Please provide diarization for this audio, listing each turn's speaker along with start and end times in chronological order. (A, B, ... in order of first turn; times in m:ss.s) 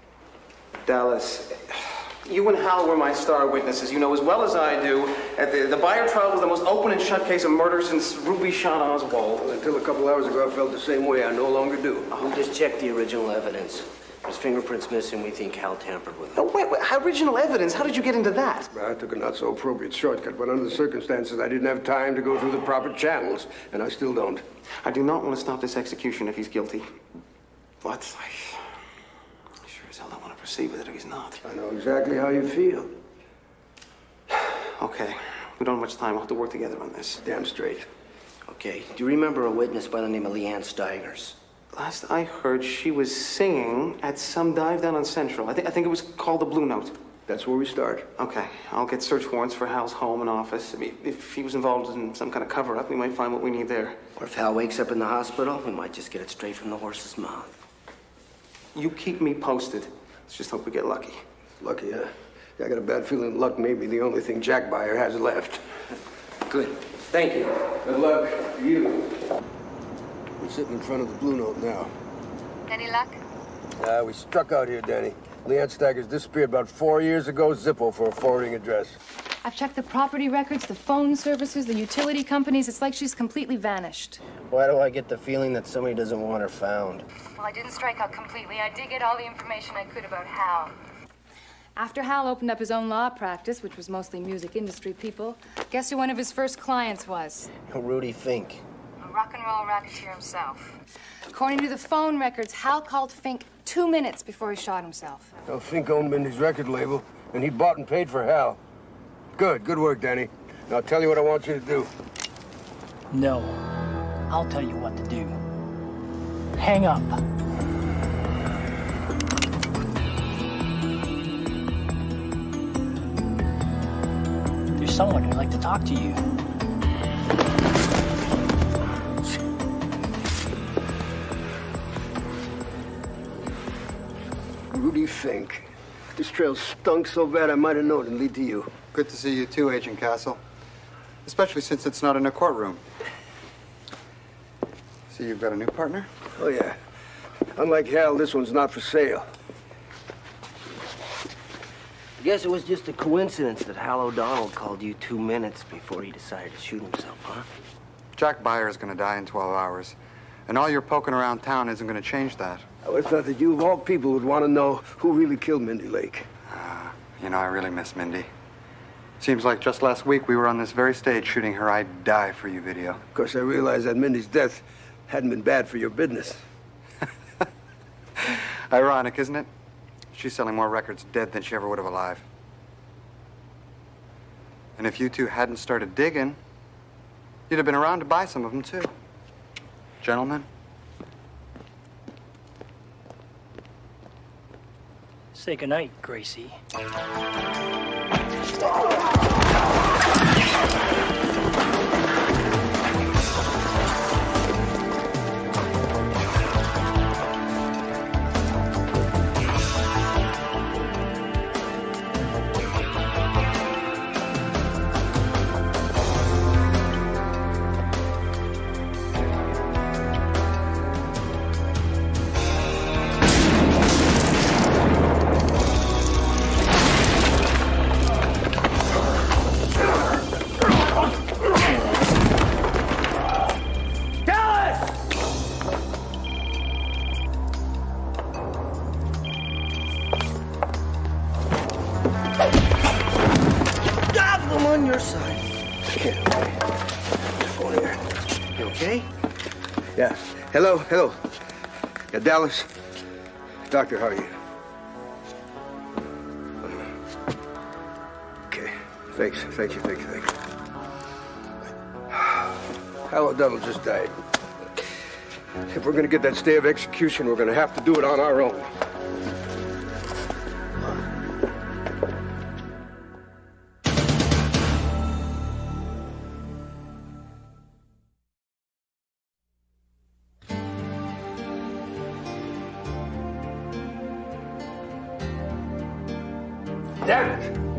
0:00.8-0:09.4 A
0:09.4-0:12.1 B
0:12.1-0:16.4 C
0:16.3-0:18.7 A
0:18.7-0:24.4 B
0:24.8-0:26.9 A
0:27.8-0:28.8 A
0:29.6-0:31.4 A
0:31.4-0:33.0 B
0:34.8-0:37.2 A
0:37.2-0:37.9 B
0:38.4-0:41.4 C
0:41.7-0:47.0 A
0:47.3-0:48.1 B
0:48.2-0:54.0 A
0:54.2-0:57.6 C
0:58.7-1:01.2 A
1:01.6-1:05.6 B
1:06.5-1:07.5 C
1:07.7-1:09.1 B
1:10.4-1:11.9 B
1:12.7-1:13.2 D
1:13.8-1:19.0 B
1:19.4-1:24.2 E
1:24.4-1:27.0 C
1:27.4-1:30.7 D
1:31.8-1:37.5 E
1:37.6-1:38.6 C
1:39.0-1:40.7 D
1:41.3-1:45.3 E
1:45.4-1:48.6 B
1:49.4-1:51.9 B
1:53.1-1:53.6 F
1:54.3-1:55.4 F
1:56.6-1:57.2 F
2:04.8-2:06.2 F
2:14.7-2:18.7 B
2:18.9-2:20.4 G
2:21.2-2:22.8 G
2:25.1-2:26.1 G
2:26.3-2:26.8 B
2:27.6-2:29.3 B
2:32.2-2:37.5 C
2:38.2-2:42.6 G
2:42.8-2:46.3 B
2:46.5-2:48.3 G
2:49.2-2:53.0 G
2:53.1-2:56.4 B
2:58.2-2:59.5 G
3:00.1-3:02.2 G
3:04.8-3:06.4 G
3:07.5-3:08.9 G
3:10.0-3:10.5 G
3:15.3-3:16.6 F
4:04.0-4:05.5 C
4:05.9-4:06.6 B
4:07.4-4:08.0 B
4:08.6-4:09.1 C
4:10.0-4:11.2 B
4:12.1-4:12.7 B
4:13.7-4:14.3 B
4:18.5-4:20.3 B
4:22.1-4:22.4 B
4:23.1-4:24.2 B
4:25.7-4:28.7 B
4:47.0-4:47.6 B